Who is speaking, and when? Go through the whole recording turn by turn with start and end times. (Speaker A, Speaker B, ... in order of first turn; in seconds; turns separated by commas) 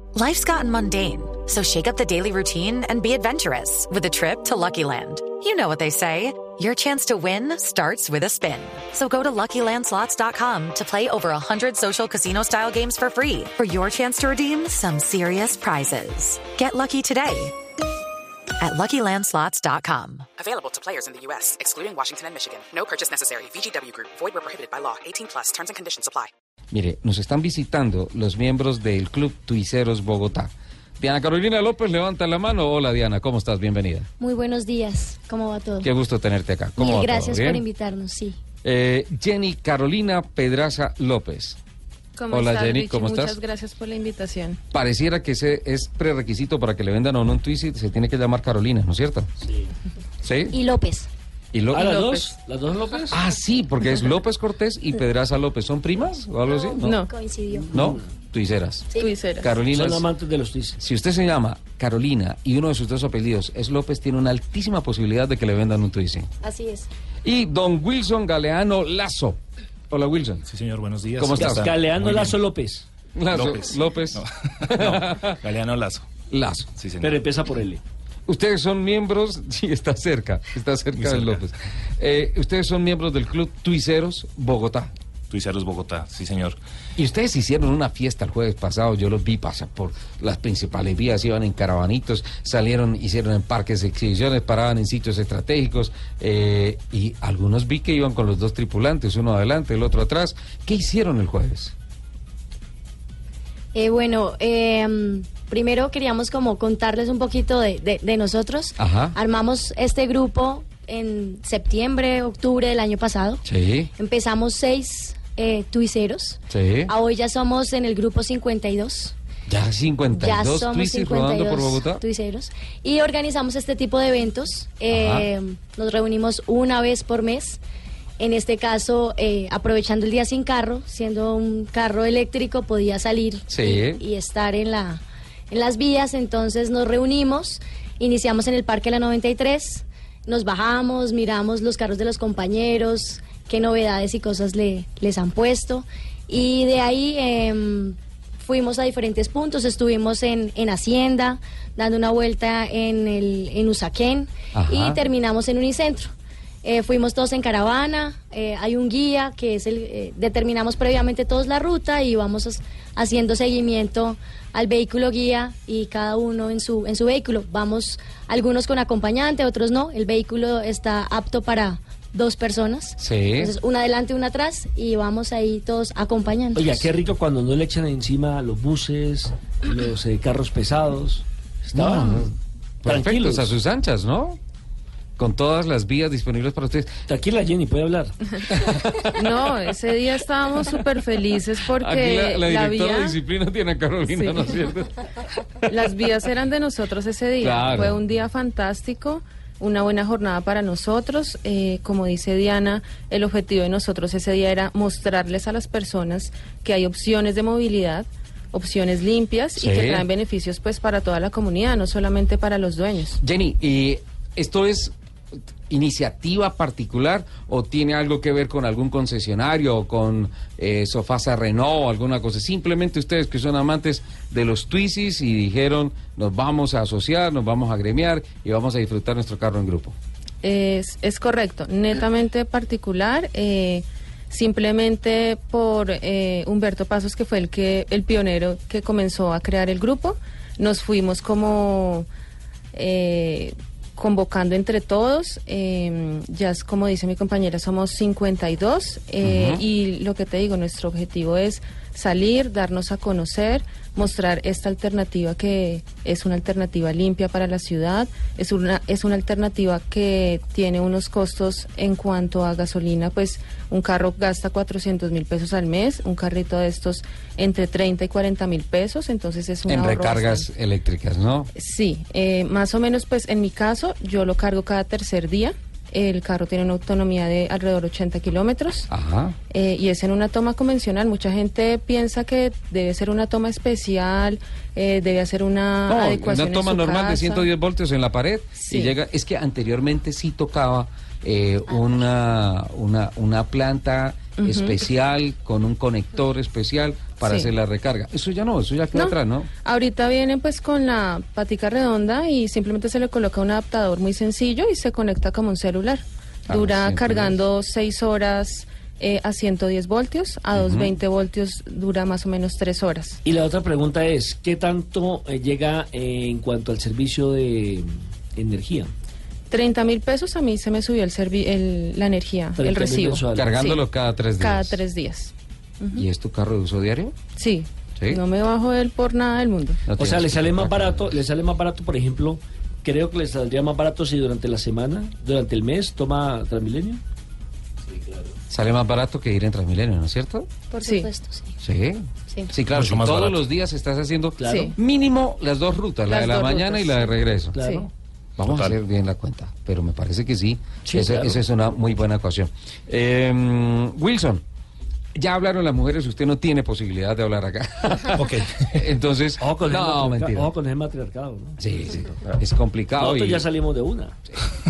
Speaker A: 0.1-17.6, Speaker A: 18.6-20.3, Speaker B: 20.4-26.3, Speaker C: 26.7-34.1, Speaker D: 34.2-35.9, Speaker C: 35.8-37.6, Speaker D: 36.8-38.4, Speaker C: 38.6-41.6, Speaker E: 42.2-44.6, Speaker C: 42.3-43.4, Speaker C: 44.7-49.3, Speaker F: 49.4-49.7, Speaker C: 50.2-50.6, Speaker D: 50.5-51.1, Speaker C: 51.5-51.8, Speaker F: 51.7-53.2, Speaker E: 51.8-52.3, Speaker C: 53.1-57.0, Speaker D: 56.5-57.7, Speaker E: 56.8-57.1, Speaker F: 57.7-58.0, Speaker C: 57.7-58.9, Speaker E: 59.0-59.6, Speaker C: 59.4-60.1, Speaker F: 59.7-60.8, Speaker C: 60.8-66.3, Speaker D: 66.4-66.9, Speaker C: 67.2-69.4, Speaker C: 69.9-70.4, Speaker G: 70.5-72.4, Speaker C: 71.2-71.7, Speaker F: 71.4-72.9, Speaker C: 73.2-75.4, Speaker G: 73.3-76.1, Speaker C: 76.3-76.7, Speaker G: 76.8-77.2, Speaker F: 77.0-77.8, Speaker C: 78.3-84.9, Speaker G: 81.0-81.4, Speaker G: 85.3-86.6, Speaker C: 87.0-101.7, Speaker D: 103.7-113.5, Speaker C: 108.8-109.2, Speaker C: 113.5-113.9, Speaker D: 114.0-119.2, Speaker C: 116.5-116.9, Speaker C: 119.5-122.0, Speaker D: 120.1-127.6, Speaker C: 124.9-125.3, Speaker D: 128.2-156.1, Speaker C: 133.5-134.0, Speaker C: 154.5-155.0, Speaker D: 156.6-176.8, Speaker C: 173.0-173.5, Speaker F: 176.6-182.3, Speaker C: 181.7-184.4, Speaker F: 182.8-183.5, Speaker C: 185.2-186.9, Speaker F: 187.1-188.1, Speaker C: 188.5-188.9, Speaker E: 189.2-193.2, Speaker C: 191.7-195.0, Speaker E: 194.1-194.5, Speaker E: 195.7-213.2, Speaker C: 197.4-198.0, Speaker C: 209.6-210.1, Speaker C: 213.2-214.9, Speaker C: 215.7-230.0, Speaker E: 230.4-242.1, Speaker E: 242.7-270.5, Speaker C: 249.2-249.6, Speaker C: 269.7-271.5, Speaker E: 271.6-278.9, Speaker C: 278.9-279.4, Speaker E: 279.5-287.5, Speaker C: 285.9-299.5, Speaker E: 288.6-288.9, Speaker E: 294.4-294.8, Speaker E: 297.2-297.5, Speaker E: 298.9-313.2, Speaker C: 306.5-307.4, Speaker C: 310.6-310.9, Speaker F: 313.2-318.9, Speaker E: 319.5-323.9, Speaker F: 322.6-323.5, Speaker C: 323.3-324.8, Speaker E: 324.4-326.1, Speaker C: 325.9-327.1, Speaker E: 327.4-329.9, Speaker C: 329.9-331.1, Speaker F: 329.9-337.0, Speaker F: 337.9-338.4, Speaker C: 338.5-340.5, Speaker D: 340.7-341.6, Speaker C: 341.6-347.6, Speaker G: 342.7-343.4, Speaker F: 344.4-344.8, Speaker E: 344.5-344.8, Speaker E: 346.1-347.9, Speaker F: 347.4-347.9, Speaker C: 348.4-354.4, Speaker G: 348.4-348.8, Speaker F: 350.9-351.4, Speaker C: 355.1-360.5, Speaker G: 358.1-358.9, Speaker F: 359.4-361.6, Speaker C: 361.6-363.5, Speaker F: 363.0-364.1